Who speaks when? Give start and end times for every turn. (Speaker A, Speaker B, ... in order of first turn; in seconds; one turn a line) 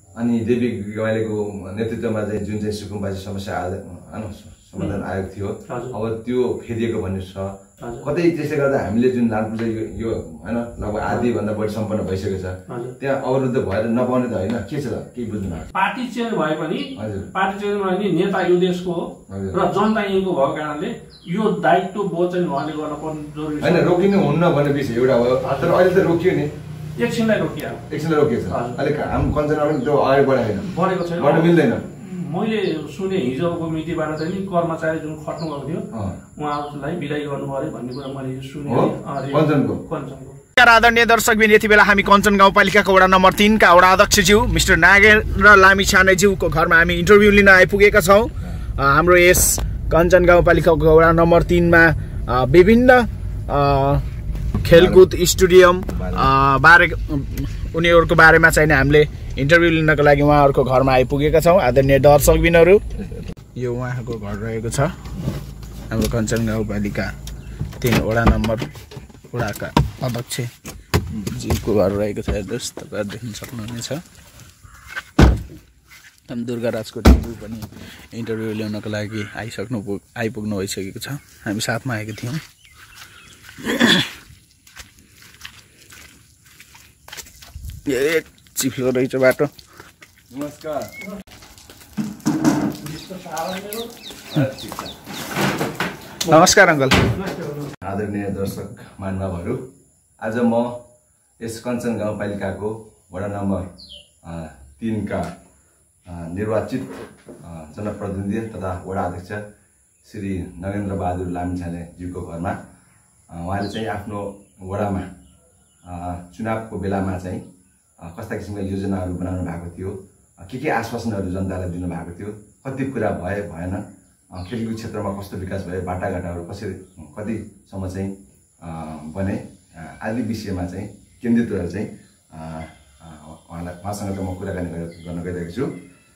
Speaker A: 0.1-15.7
Speaker B: 5.7-6.0
Speaker B: 7.8-8.1
Speaker B: 12.7-12.9
Speaker B: 15.7-24.1
Speaker A: 17.0-17.3
Speaker A: 19.3-19.6
Speaker A: 23.6-26.5
Speaker B: 25.4-25.8
Speaker B: 27.0-27.9
Speaker A: 27.9-31.8
Speaker B: 28.5-28.8
Speaker B: 30.6-40.4
Speaker A: 38.6-39.8
Speaker C: 40.6-54.0
Speaker C: 54.6-64.9
Speaker A: 54.7-55.0
Speaker A: 55.9-56.3
Speaker C: 65.9-67.1
Speaker C: 67.8-68.7
Speaker C: 69.3-70.5
Speaker C: 71.1-74.0
Speaker C: 76.3-82.4
Speaker C: 83.6-84.1
Speaker C: 87.8-89.5
Speaker A: 90.3-90.9
Speaker B: 92.8-93.9
Speaker A: 94.3-94.9
Speaker C: 96.2-97.1
Speaker B: 97.1-97.7
Speaker A: 97.8-99.6
Speaker A: 100.2-100.8
Speaker A: 101.4-103.7
Speaker A: 104.2-105.3
Speaker A: 106.0-109.4
Speaker A: 110.0-112.6
Speaker A: 113.3-115.1
Speaker A: 115.8-117.4
Speaker A: 118.0-135.7